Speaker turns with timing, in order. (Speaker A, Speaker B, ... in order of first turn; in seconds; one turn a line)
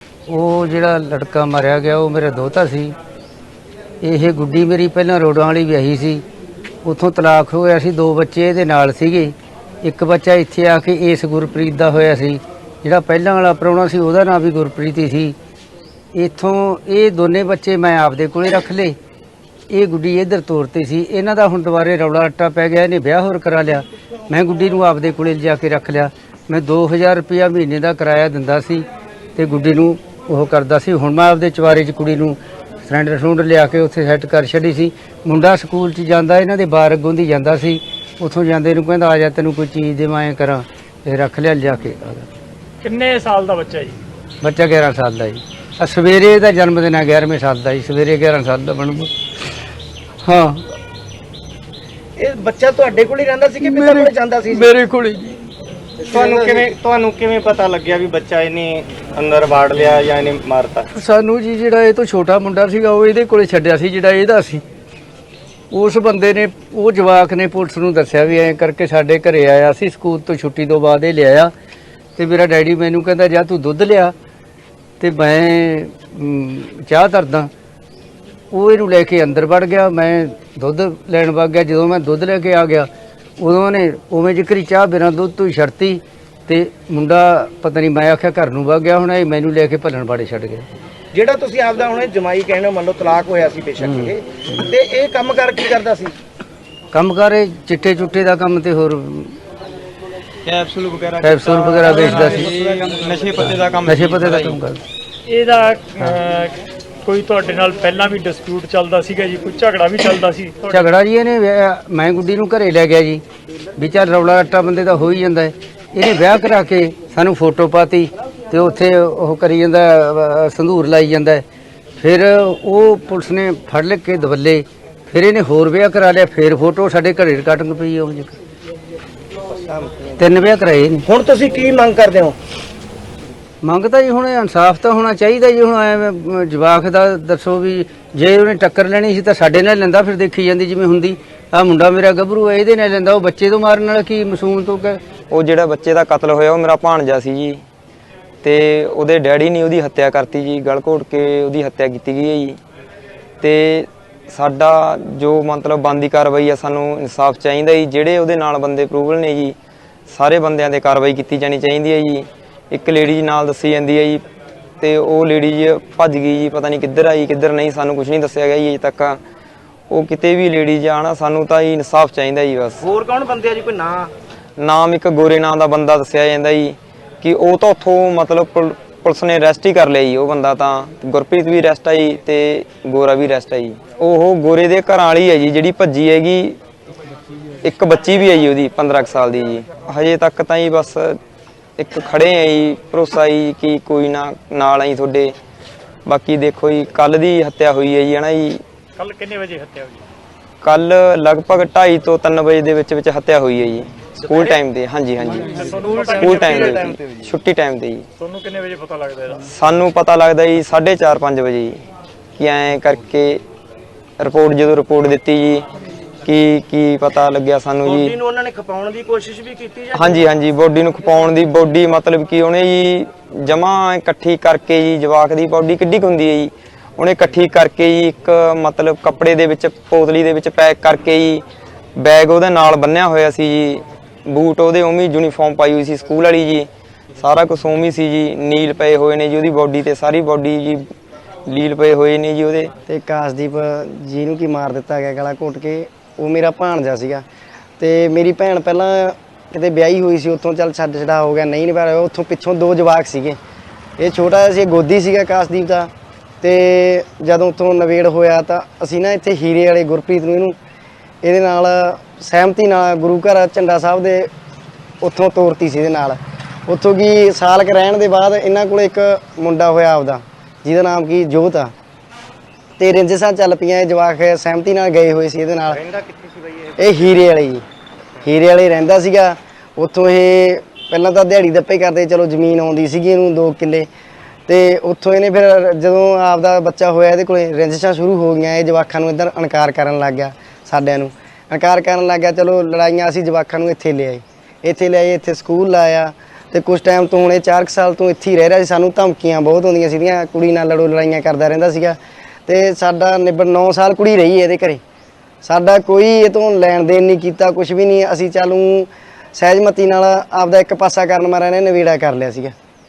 Speaker A: 0.3-3.0
Speaker A: 4.0-6.2
Speaker A: 6.8-15.4
Speaker A: 16.1-19.0
Speaker A: 19.7-42.3
Speaker B: 42.8-44.0
Speaker A: 44.4-49.1
Speaker A: 50.2-50.6
Speaker C: 52.2-54.6
Speaker A: 53.6-55.4
Speaker C: 56.1-60.9
Speaker A: 56.1-56.6
Speaker A: 60.9-64.6
Speaker A: 65.7-71.5
Speaker A: 72.2-74.1
Speaker A: 75.0-77.5
Speaker A: 78.5-90.7
Speaker C: 91.1-96.1
Speaker A: 93.8-94.6
Speaker A: 96.9-99.4
Speaker D: 100.4-104.6
Speaker A: 101.2-102.6
Speaker A: 103.3-104.8
Speaker B: 105.3-110.8
Speaker A: 110.6-113.2
Speaker A: 113.8-121.4
Speaker A: 122.0-128.4
Speaker C: 129.6-130.1
Speaker A: 130.2-131.0
Speaker C: 131.1-132.3
Speaker A: 133.6-145.0
Speaker D: 145.3-147.6
Speaker D: 148.4-152.6
Speaker D: 153.4-159.5
Speaker D: 160.1-164.2
Speaker D: 164.8-169.2
Speaker D: 169.9-172.8
Speaker C: 172.8-174.1
Speaker D: 174.6-186.6
Speaker D: 187.6-191.2
Speaker D: 191.8-195.3
Speaker D: 196.1-198.6
Speaker B: 199.0-200.0
Speaker D: 200.6-208.0
Speaker B: 205.5-207.0
Speaker C: 205.9-206.5
Speaker B: 208.2-209.4
Speaker D: 209.4-211.8
Speaker D: 212.4-213.4
Speaker D: 214.2-215.6
Speaker D: 216.2-218.1
Speaker C: 217.8-220.2
Speaker D: 219.9-231.4
Speaker D: 232.0-240.8
Speaker D: 241.5-242.7
Speaker E: 242.9-247.2
Speaker E: 247.8-253.4
Speaker E: 254.0-255.9
Speaker E: 256.4-260.6
Speaker E: 261.2-264.3
Speaker E: 265.0-271.7
Speaker E: 272.8-275.8
Speaker C: 275.7-277.2
Speaker E: 276.8-277.6
Speaker E: 278.2-283.9
Speaker E: 284.5-304.8
Speaker E: 305.4-312.5